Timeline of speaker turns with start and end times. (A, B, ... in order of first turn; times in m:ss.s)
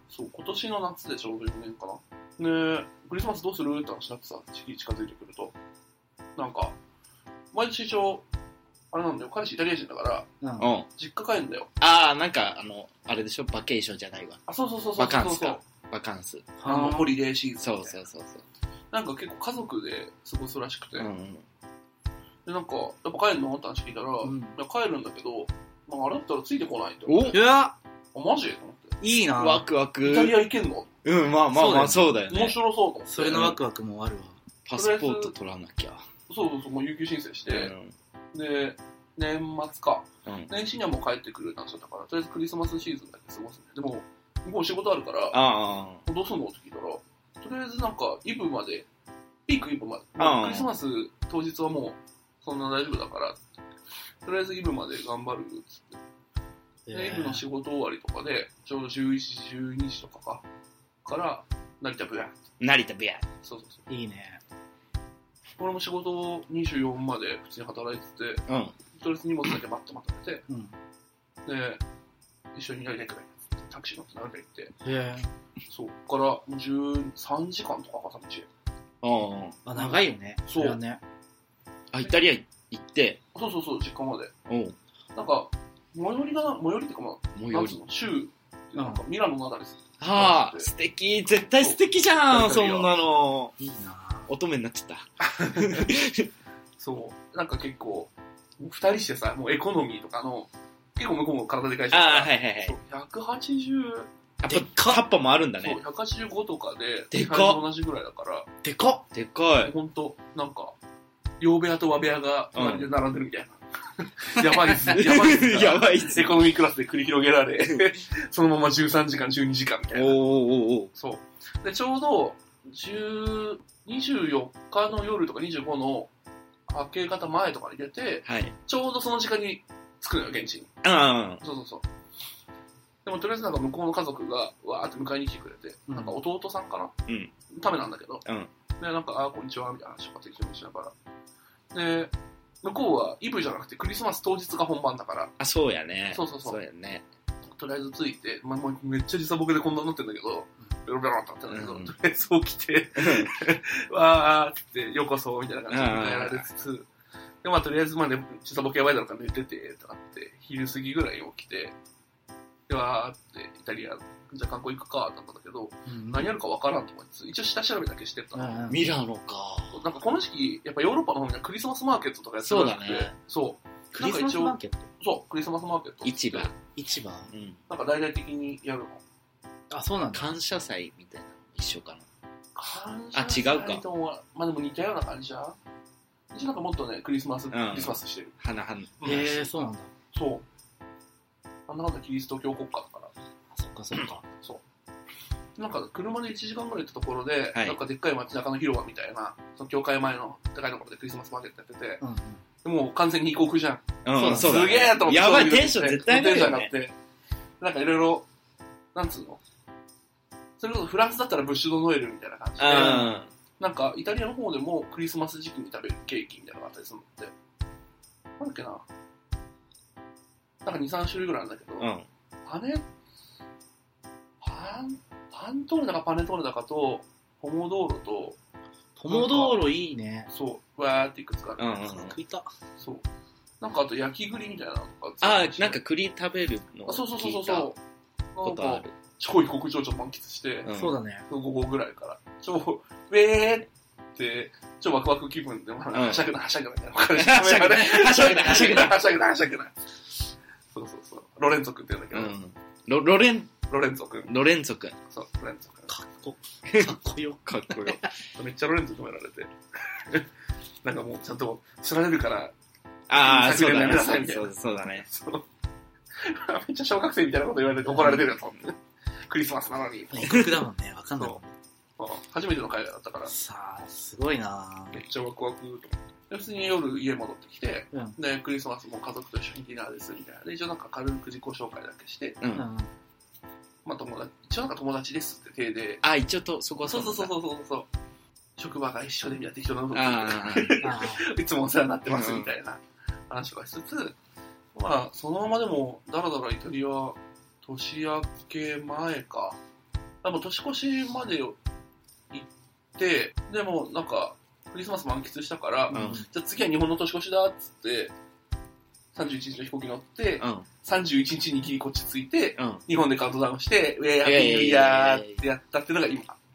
0:00.1-0:05.5 A
0:06.4-0:06.8 A
0:07.5-0:08.2 A
0:08.9-0:10.3 A
0:10.4-0:10.7 B
0:10.6-0:10.9 C
0:11.0-0:11.7 A
0:11.8-0:14.4 C
0:14.5-0:15.6 A
0:15.0-0:16.5 C
0:16.6-0:17.2 B
0:16.6-0:17.9 A
0:17.6-0:18.4 C
0:18.9-0:21.1 A
0:21.0-0:21.4 C
0:22.4-0:27.4 A
0:24.2-0:24.6 B
0:27.0-0:27.4 C
0:27.3-0:27.7 B
0:28.1-0:28.9 A
0:29.0-0:29.6 B
0:29.4-0:30.4 C
0:30.0-0:30.9 A
0:31.0-0:32.6 C
0:31.5-0:32.1 B
0:32.3-0:33.5 A
0:33.1-0:34.4 B
0:33.3-0:33.6 C
0:34.6-0:36.0 C
0:34.7-0:35.3 A
0:36.3-0:37.7 A
0:37.5-0:37.9 C
0:38.3-0:45.4 A
0:40.2-0:40.5 C
0:45.3-0:46.0 C
0:46.0-0:48.8 A
0:49.5-0:53.4 A
0:50.2-0:50.7 C
0:54.2-0:56.0 A
0:56.9-0:57.4 B
0:56.9-1:00.4 A
1:01.0-1:02.4 A
1:02.6-1:03.2 C
1:03.4-1:03.8 A
1:03.9-1:04.4 B
1:05.6-1:10.4 A
1:08.5-1:08.8 C
1:10.5-1:10.7 B
1:11.4-1:11.8 A
1:12.5-1:14.7 A
1:14.8-1:15.3 B
1:15.7-1:18.5 A
1:19.0-1:19.6 C
1:19.6-1:21.0 B
1:20.5-1:20.8 A
1:21.9-1:23.2 C
1:23.3-1:24.3 A
1:24.5-1:24.8 C
1:25.1-1:30.7 A
1:27.4-1:27.8 C
1:28.8-1:29.0 B
1:30.0-1:33.5 C
1:31.6-1:32.9 A
1:33.6-1:34.3 B
1:34.3-1:36.3 C
1:35.2-1:35.9 A
1:36.8-1:44.1 A
1:41.9-1:42.8 C
1:44.4-1:45.8 C
1:44.5-1:45.0 B
1:45.6-1:48.5 A
1:47.1-1:47.6 C
1:48.6-1:49.0 B
1:49.1-1:49.7 C
1:49.6-1:50.7 A
1:51.4-2:00.2 A
1:52.5-1:52.9 C
1:54.4-1:56.3 C
1:59.9-2:00.9 C
2:01.0-2:06.1 A
2:06.7-2:10.7 A
2:08.2-2:08.5 C
2:10.8-2:11.4 C
2:11.4-2:11.8 A
2:13.0-2:16.9 A
2:15.9-2:16.2 B
2:17.1-2:17.3 C
2:17.5-2:18.2 A
2:18.2-2:18.5 C
2:18.8-2:20.9 A
2:21.7-2:25.3 A
2:25.4-2:27.0 C
2:26.1-2:26.6 A
2:27.4-2:36.9 A
2:31.5-2:31.9 C
2:33.0-2:33.3 C
2:35.7-2:36.5 C
2:37.4-2:41.7 A
2:42.7-2:48.6 A
2:45.9-2:46.3 B
2:48.3-2:48.8 B
2:48.7-2:49.8 C
2:49.7-2:56.5 A
2:52.4-2:53.1 C
2:53.9-2:54.8 B
2:56.0-2:56.5 C
2:56.7-2:57.3 B
2:57.3-2:57.6 C
2:57.7-2:59.0 A
2:59.7-3:00.3 B
3:00.1-3:02.0 C
3:02.5-3:05.6 A
3:03.1-3:03.8 C
3:06.3-3:08.3 A
3:07.5-3:09.2 C
3:09.0-3:09.4 A
3:09.0-3:09.9 B
3:10.1-3:10.4 A
3:11.7-3:13.1 A
3:13.5-3:14.2 B
3:15.6-3:22.0 A
3:22.0-3:22.4 B
3:22.6-3:26.9 A
3:24.0-3:26.7 C
3:24.2-3:24.5 B
3:27.6-3:28.2 A
3:28.9-3:29.4 A
3:30.6-3:37.3 A
3:32.6-3:33.3 C
3:32.7-3:33.1 B
3:38.4-3:38.8 A
3:40.6-3:41.9 A
3:41.8-3:42.1 C
3:42.4-3:42.8 A
3:44.4-3:48.4 A
3:49.0-3:50.3 B
3:49.1-3:49.6 A
3:50.3-3:51.8 A
3:51.6-3:52.2 C
3:51.8-3:52.5 B
3:52.8-3:53.0 A
3:53.6-3:55.8 A
3:55.2-3:57.7 C
3:56.9-3:57.8 A
3:58.3-4:00.7 A
3:58.4-3:58.9 C
4:00.6-4:01.0 C
4:00.7-4:01.2 B
4:01.3-4:09.7 A
4:05.9-4:06.3 C
4:07.2-4:09.0 C
4:10.7-4:12.3 A
4:12.1-4:13.6 C
4:13.7-4:14.3 A
4:14.2-4:15.0 C
4:15.1-4:15.9 A
4:15.9-4:18.0 B
4:16.7-4:16.9 C
4:17.4-4:18.0 C
4:18.4-4:20.2 A
4:20.8-4:22.5 A
4:23.1-4:25.0 C
4:23.1-4:25.4 A
4:26.2-4:28.8 A
4:27.8-4:28.3 B
4:29.3-4:30.4 A
4:30.1-4:31.5 B
4:32.0-4:33.3 A
4:33.3-4:35.0 B
4:34.9-4:42.4 A
4:42.4-4:42.6 C
4:42.5-4:42.9 B
4:43.8-4:46.0 A
4:46.0-4:47.3 C
4:46.8-4:47.9 A
4:48.6-4:54.2 A
4:49.9-4:50.9 C
4:50.8-4:51.2 B
4:52.1-4:52.5 C
4:54.7-4:59.6 A
5:00.2-5:01.6 A
5:02.3-5:08.1 A
5:05.9-5:06.3 B
5:05.9-5:06.2 C
5:09.1-5:16.4 A
5:10.4-5:10.7 C
5:12.6-5:12.8 C
5:14.2-5:15.3 C